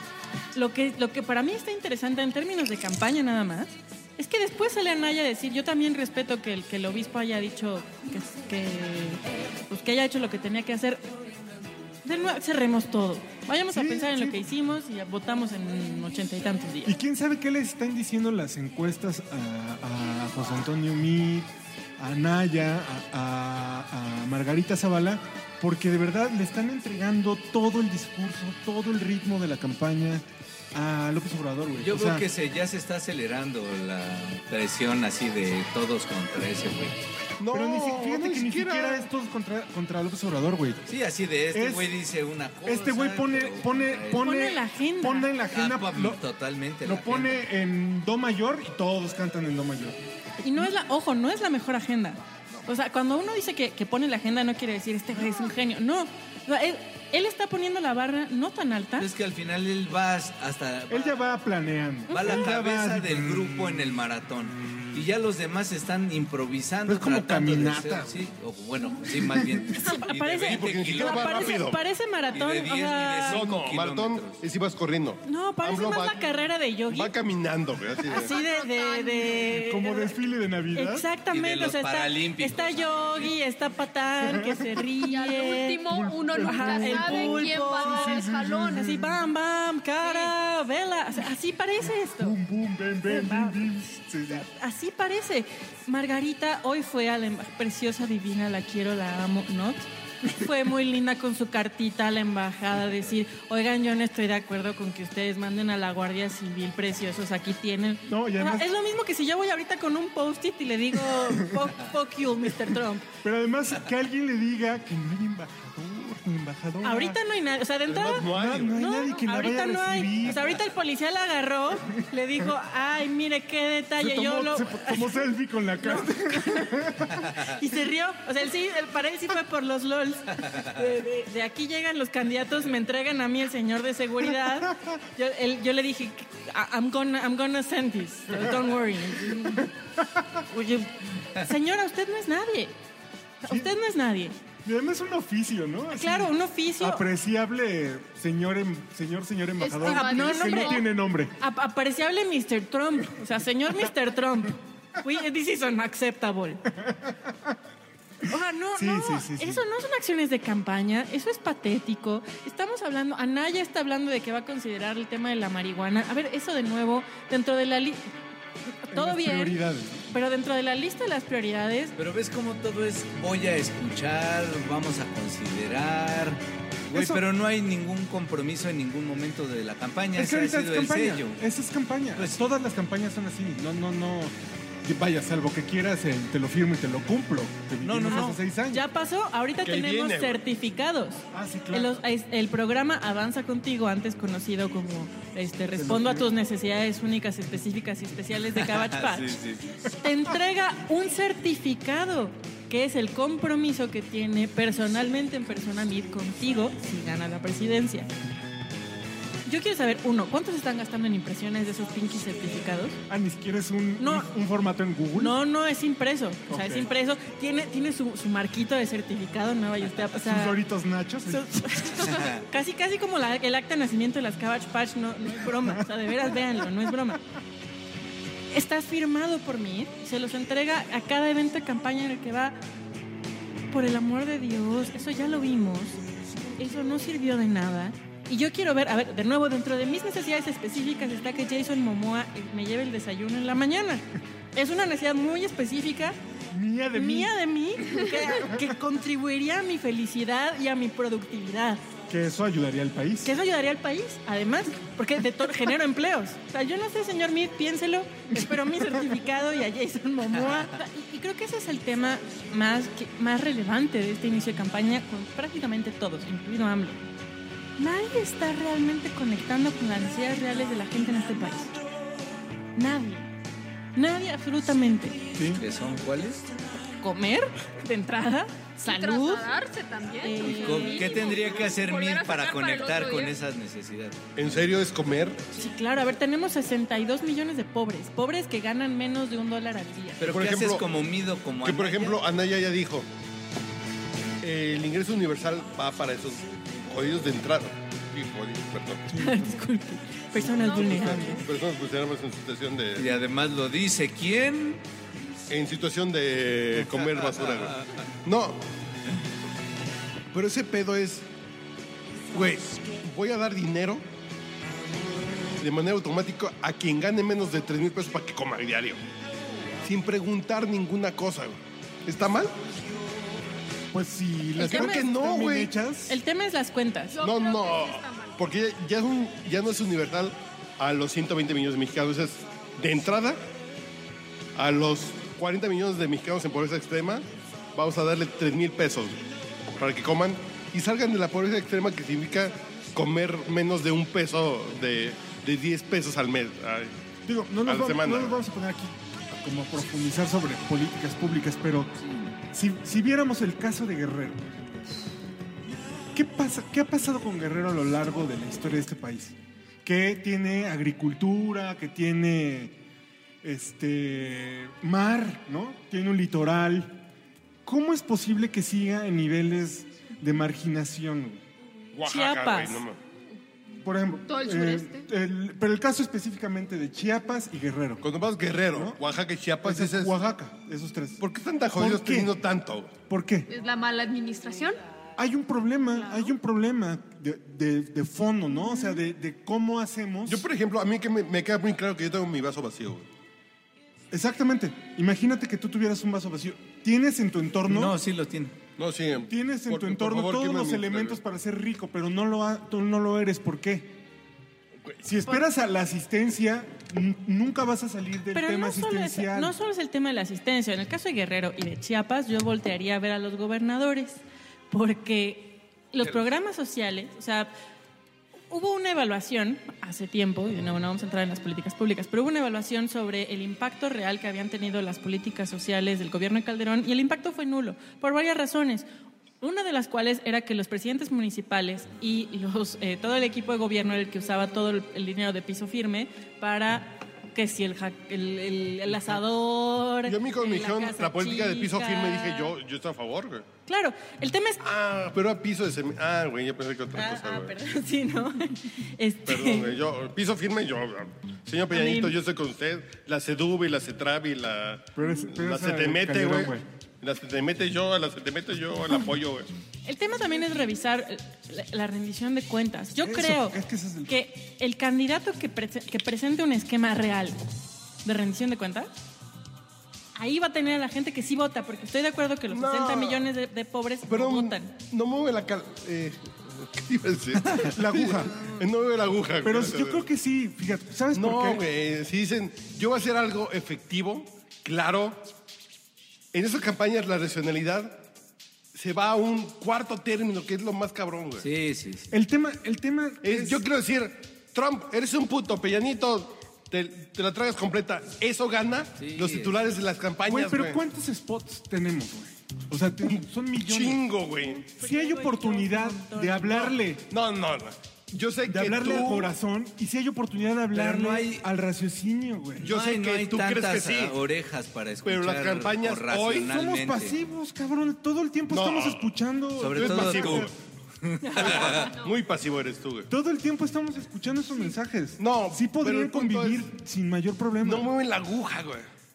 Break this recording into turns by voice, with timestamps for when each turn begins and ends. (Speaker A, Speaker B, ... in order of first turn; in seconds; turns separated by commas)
Speaker A: 0.6-11.0, Speaker A: 12.1-17.0, Speaker B: 13.7-14.5, Speaker B: 16.9-32.2, Speaker C: 31.8-37.0, Speaker D: 37.4-39.1, Speaker B: 37.5-40.8, Speaker C: 40.9-44.3, Speaker B: 41.5-42.0, Speaker B: 42.6-46.2, Speaker A: 44.2-45.3, Speaker C: 45.5-47.5, Speaker B: 46.8-50.0, Speaker A: 50.4-59.1, Speaker C: 59.0-61.3, Speaker B: 60.9-63.8, Speaker A: 62.1-62.4, Speaker C: 62.1-71.7, Speaker B: 66.9-68.2, Speaker B: 69.1-69.7, Speaker A: 69.7-73.5, Speaker D: 70.5-71.8, Speaker C: 72.3-74.4, Speaker D: 73.3-76.2, Speaker A: 75.2-77.1, Speaker D: 76.9-78.3, Speaker A: 78.1-80.2, Speaker E: 78.1-79.6, Speaker B: 79.6-81.1, Speaker A: 80.8-85.8, Speaker C: 81.3-83.3, Speaker B: 84.2-84.8, Speaker E: 85.0-89.0, Speaker B: 85.9-89.2, Speaker A: 86.4-88.2, Speaker A: 88.7-92.4, Speaker E: 90.1-90.3, Speaker B: 92.2-94.5, Speaker A: 93.1-113.1, Speaker B: 108.1-108.7, Speaker B: 111.2-111.4, Speaker B: 113.2-117.2, Speaker A: 116.8-139.7, Speaker D: 117.9-118.8, Speaker B: 118.1-120.6, Speaker B: 124.0-127.3, Speaker B: 139.4-140.3, Speaker A: 140.5-142.7, Speaker A: 143.4-144.3, Speaker B: 144.7-151.3, Speaker A: 145.9-147.1, Speaker E: 149.6-150.9, Speaker A: 149.8-150.9, Speaker A: 151.4-156.6, Speaker B: 156.8-157.6, Speaker A: 158.3-168.0, Speaker B: 158.8-159.7, Speaker A: 168.8-171.9, Speaker B: 168.9-170.1, Speaker C: 172.0-181.4, Speaker B: 176.9-177.2, Speaker B: 180.2-184.3, Speaker C: 182.2-182.4, Speaker B: 184.8-188.8, Speaker C: 187.8-188.4, Speaker A: 188.1-199.4, Speaker D: 189.6-190.4, Speaker B: 191.3-192.0, Speaker B: 195.8-196.3, Speaker C: 198.6-199.8, Speaker A: 199.9-208.1, Speaker A: 209.5-213.0, Speaker B: 213.1-215.4, Speaker A: 214.0-214.3, Speaker A: 215.2-220.6, Speaker B: 216.5-216.9, Speaker B: 220.2-221.6, Speaker A: 221.3-227.2, Speaker C: 222.1-222.4, Speaker A: 228.5-232.6, Speaker A: 233.7-236.0, Speaker A: 236.6-244.0, Speaker A: 244.6-246.2, Speaker B: 246.5-247.4, Speaker A: 246.9-251.8, Speaker B: 248.3-248.6, Speaker B: 252.1-253.3, Speaker A: 253.2-267.0, Speaker A: 267.8-271.7, Speaker A: 272.8-273.3, Speaker A: 273.9-275.2, Speaker B: 275.4-275.6, Speaker C: 275.4-276.4, Speaker A: 277.0-279.5, Speaker E: 278.8-283.4, Speaker A: 280.2-281.4, Speaker C: 280.4-284.2, Speaker D: 284.4-285.4, Speaker A: 285.6-290.2, Speaker C: 290.2-292.2, Speaker D: 290.3-290.9, Speaker D: 291.6-293.1, Speaker D: 294.4-299.1, Speaker B: 299.1-299.6, Speaker A: 299.2-301.4, Speaker B: 300.4-301.2, Speaker E: 300.6-301.4, Speaker D: 300.8-303.1, Speaker C: 303.0-304.8, Speaker D: 305.5-308.6, Speaker C: 306.8-307.9, Speaker D: 310.3-311.3, Speaker D: 312.3-314.0, Speaker D: 315.6-319.0, Speaker D: 319.8-322.5, Speaker B: 323.9-326.2, Speaker A: 324.6-325.1, Speaker D: 324.6-325.7, Speaker A: 326.1-327.2, Speaker E: 327.1-328.4, Speaker D: 327.2-333.4, Speaker D: 334.6-339.2, Speaker D: 339.8-346.9, Speaker B: 347.2-354.7, Speaker D: 347.6-348.4, Speaker B: 356.1-362.8, Speaker B: 363.4-367.0, Speaker B: 367.6-371.4, Speaker D: 371.9-373.0, Speaker A: 372.1-372.9, Speaker B: 373.8-378.0, Speaker E: 374.3-375.1, Speaker D: 378.0-380.1, Speaker B: 378.7-379.0, Speaker B: 379.6-382.4, Speaker D: 381.2-382.9, Speaker B: 383.1-383.5, Speaker E: 383.5-384.8, Speaker B: 385.2-390.5, Speaker E: 386.0-386.3, Speaker D: 390.3-393.1, Speaker B: 394.1-398.0, Speaker C: 397.7-398.5, Speaker D: 398.8-401.2, Speaker B: 399.3-404.0, Speaker B: 405.0-409.6, Speaker A: 408.3-417.5, Speaker A: 418.5-428.9, Speaker A: 429.4-442.5, Speaker D: 440.1-443.5, Speaker A: 443.7-444.6, Speaker D: 444.6-447.6, Speaker A: 446.9-449.8, Speaker D: 449.3-459.5, Speaker A: 451.7-452.2, Speaker B: 455.0-456.6, Speaker A: 459.9-467.4, Speaker B: 463.0-464.2, Speaker A: 468.0-468.9, Speaker A: 470.2-474.7, Speaker D: 472.5-473.3, Speaker D: 474.1-480.1, Speaker B: 477.6-478.3, Speaker B: 479.4-481.6, Speaker D: 481.1-485.2, Speaker D: 486.3-488.1, Speaker D: 488.7-491.5, Speaker C: 491.4-492.1, Speaker B: 492.1-493.6, Speaker D: 493.2-500.8, Speaker C: 499.0-499.7, Speaker B: 500.3-504.0, Speaker D: 503.1-504.6, Speaker A: 504.6-506.7, Speaker B: 504.7-507.0, Speaker D: 506.5-509.3, Speaker B: 508.5-512.8, Speaker C: 510.7-511.4, Speaker D: 512.6-514.2, Speaker C: 512.7-517.2, Speaker D: 515.0-516.5, Speaker B: 516.4-520.5, Speaker D: 518.5-519.1, Speaker C: 519.6-520.5, Speaker D: 519.7-520.5, Speaker C: 521.0-522.0, Speaker A: 521.2-521.9, Speaker D: 521.4-523.1, Speaker B: 523.1-527.9, Speaker D: 525.2-526.6, Speaker D: 527.6-528.9